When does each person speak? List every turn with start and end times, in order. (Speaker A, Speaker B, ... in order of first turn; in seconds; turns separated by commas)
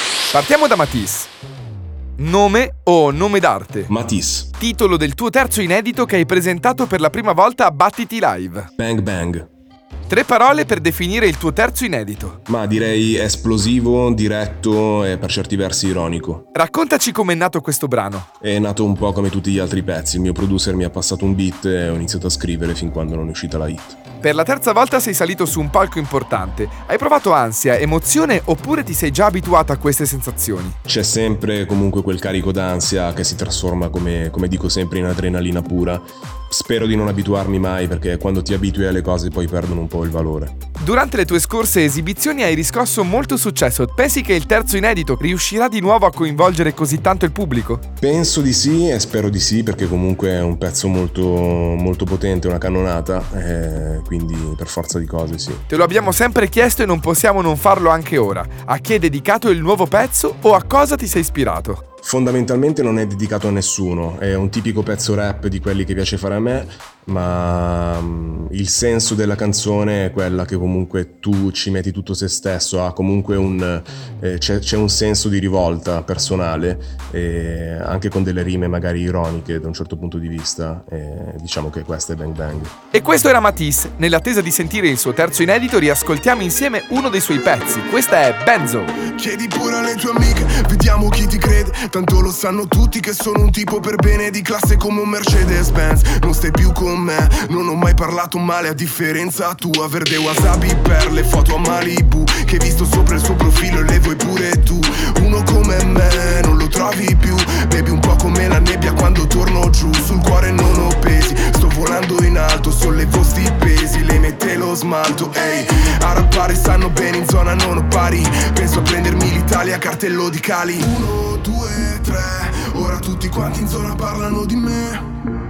Speaker A: 0.3-1.3, Speaker A: 2.2-3.9, Speaker B: 3.9-4.5, Speaker A: 4.6-8.7, Speaker B: 8.8-9.5, Speaker A: 10.1-12.4, Speaker B: 12.5-16.5, Speaker A: 16.5-18.3, Speaker B: 18.4-24.0, Speaker A: 24.2-30.8, Speaker B: 30.9-40.5, Speaker A: 40.8-47.8, Speaker B: 48.0-55.6, Speaker A: 55.7-61.8, Speaker B: 62.0-82.7, Speaker A: 82.9-89.0, Speaker C: 89.1-125.2